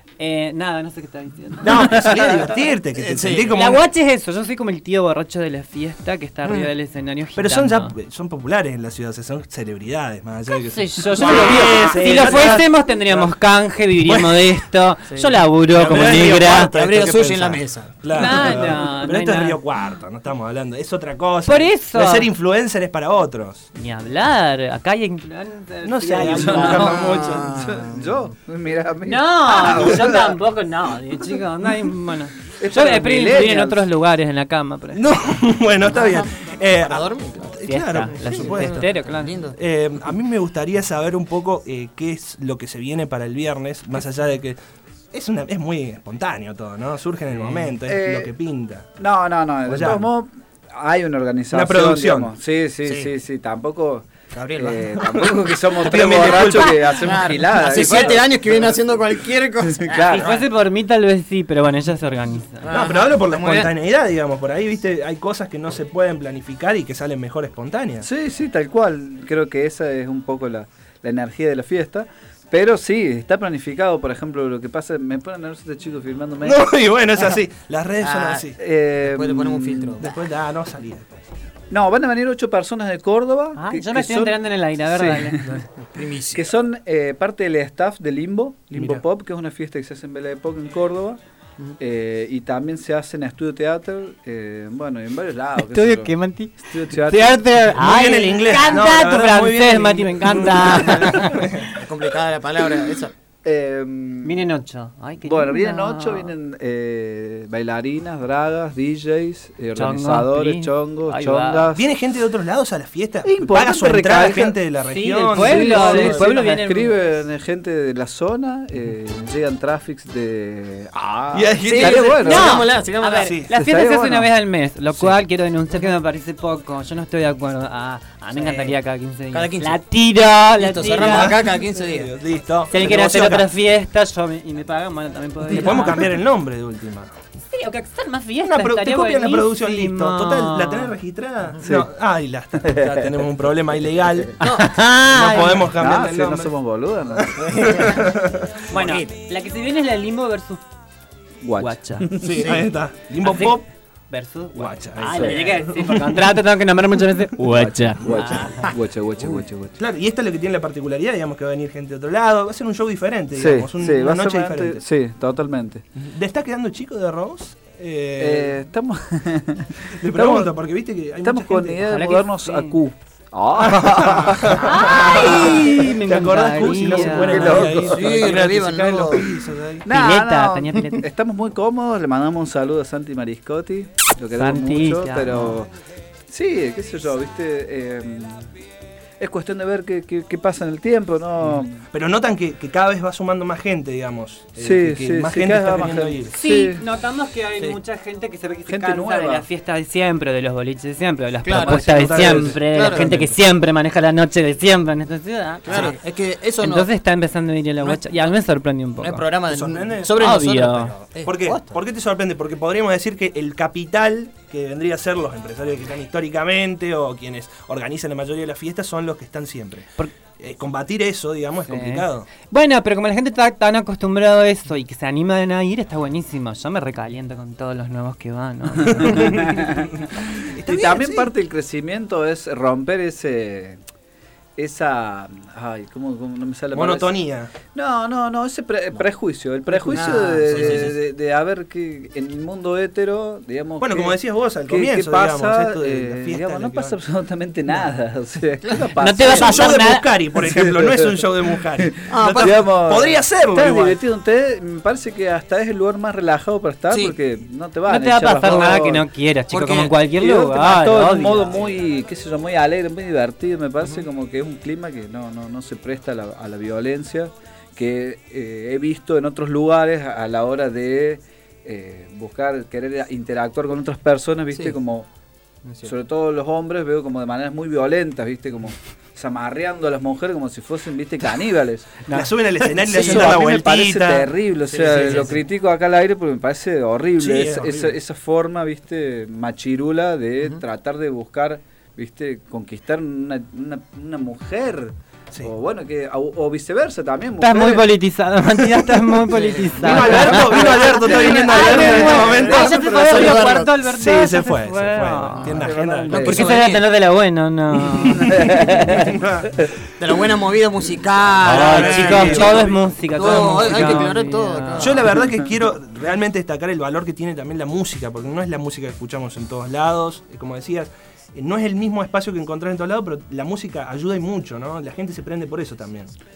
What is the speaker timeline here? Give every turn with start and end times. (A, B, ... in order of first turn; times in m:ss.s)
0:00.2-0:02.3 A
0:01.6-0:03.8 B
0:02.9-0:03.6 C
0:03.5-0:07.9 A
0:07.3-0:13.4 B
0:10.7-0:16.7 A
0:14.0-0:14.5 B
0:15.1-0:15.4 C
0:15.7-0:23.6 B
0:15.9-0:17.9 C
0:18.1-0:19.6 A
0:21.4-0:22.3 A
0:23.7-0:27.0 A
0:25.8-0:27.5 B
0:26.3-0:30.1 D
0:26.4-0:28.3 C
0:29.1-0:35.0 A
0:32.6-0:33.8 D
0:34.9-0:38.9 B
0:35.8-0:37.5 C
0:37.7-0:39.3 A
0:38.1-0:39.6 C
0:39.6-0:44.6 B
0:45.1-0:48.9 B
0:47.3-0:47.7 C
0:47.8-0:48.3 D
0:49.0-0:58.8 D
0:49.6-0:50.1 B
0:51.5-0:52.3 B
0:52.8-0:53.1 C
0:54.3-0:55.0 C
0:55.1-0:57.2 B
0:55.9-1:00.5 C
0:59.7-1:00.3 D
1:00.1-1:02.7 A
1:02.6-1:03.7 C
1:02.7-1:08.0 B
1:08.0-1:16.7 D
1:16.4-1:18.6 B
1:18.0-1:20.1 C
1:18.6-1:20.1 D
1:20.0-1:21.1 B
1:21.7-1:24.4 D
1:23.6-1:25.6 A
1:24.9-1:25.6 D
1:25.9-1:26.5 C
1:26.3-1:31.2 D
1:28.7-1:29.0 B
1:31.8-1:37.5 D
1:35.6-1:41.5 A
1:37.7-1:41.6 B
1:40.6-1:41.1 C
1:41.7-1:43.1 C
1:43.4-1:44.4 D
1:44.2-1:46.3 A
1:45.2-1:51.9 D
1:49.8-1:51.7 A
1:51.7-1:56.2 B
1:53.2-1:54.6 D
1:54.9-1:56.9 A
1:55.4-2:02.6 D
2:01.3-2:02.4 B
2:01.6-2:03.3 C
2:02.2-2:11.4 A
2:03.2-2:03.5 B
2:03.5-2:04.4 D
2:05.7-2:05.9 C
2:08.3-2:08.7 C
2:09.3-2:09.8 C
2:10.6-2:12.1 C
2:11.0-2:13.5 B
2:12.7-2:16.1 A
2:15.5-2:17.1 B
2:17.5-2:20.9 A
2:18.4-2:24.4 B
2:21.6-2:21.9 D
2:22.6-2:23.2 D
2:24.4-2:24.7 C
2:24.4-2:25.7 A
2:24.9-2:26.5 B
2:25.8-2:27.9 D
2:27.1-2:28.5 B
2:27.4-2:28.0 C
2:28.7-2:29.1 C
2:28.7-2:30.6 A
2:31.4-2:32.6 D
2:31.6-2:32.1 A
2:32.2-2:33.6 B
2:32.2-2:32.7 C
2:33.2-2:38.6 A
2:34.5-2:36.2 B
2:35.1-2:35.6 D
2:37.5-2:39.8 D
2:38.1-2:39.4 C
2:39.8-2:44.8 B
2:43.3-2:45.8 D
2:46.0-2:48.6 B
2:48.2-2:50.5 D
2:50.0-2:51.8 B
2:51.2-2:55.7 D
2:51.8-2:52.8 A
2:53.6-2:59.9 B
2:54.6-2:57.6 A
2:54.8-2:55.4 C
2:56.6-2:58.1 D
2:57.4-2:59.3 C
2:59.8-3:05.7 D
2:59.9-3:01.0 A
3:04.3-3:05.6 A
3:06.3-3:08.5 D
3:09.2-3:11.8 D
3:11.9-3:16.4 B
3:14.6-3:16.8 D
3:16.3-3:25.9 A
3:18.6-3:19.4 D
3:21.4-3:22.1 C
3:21.6-3:23.4 B
3:22.1-3:22.5 D
3:22.6-3:23.0 C
3:25.6-3:26.9 C
3:26.6-3:29.2 A
3:27.8-3:28.3 C
3:28.9-3:31.8 C
3:29.5-3:30.5 B
3:30.2-3:30.9 A
3:31.1-3:39.9 B
3:40.4-3:42.3 B
3:41.6-3:49.5 A
3:49.2-3:49.9 D
3:50.5-3:51.3 B
3:50.6-3:53.8 D
3:54.6-3:57.2 D
3:56.7-3:57.5 B
3:57.7-4:09.8 D
3:59.7-4:01.0 C
4:03.8-4:07.0 B
4:09.0-4:10.1 A
4:09.2-4:14.0 B
4:10.4-4:11.2 D
4:12.1-4:12.5 C
4:12.4-4:19.0 D
4:16.9-4:17.2 C
4:17.9-4:21.6 A
4:19.5-4:20.0 C
4:20.2-4:35.1 D
4:34.5-4:34.8 C
4:35.8-4:41.9 D
4:42.0-4:42.3 A
4:42.1-4:44.3 B
4:42.8-4:57.8 D
4:42.9-4:43.4 A
4:44.6-4:45.4 C
4:44.9-4:45.3 B
4:47.2-4:48.0 B
4:57.4-5:08.7 A
4:59.3-5:01.4 C
4:59.8-5:02.7 B
4:59.8-5:03.6 D
5:02.1-5:03.7 C
5:03.8-5:06.4 B
5:05.4-5:06.8 C
5:05.6-5:06.6 D
5:07.9-5:09.5 B
5:08.2-5:09.2 D
5:10.0-5:15.1 C
5:11.4-5:15.1 A
5:11.5-5:14.0 B
5:14.8-5:26.1 B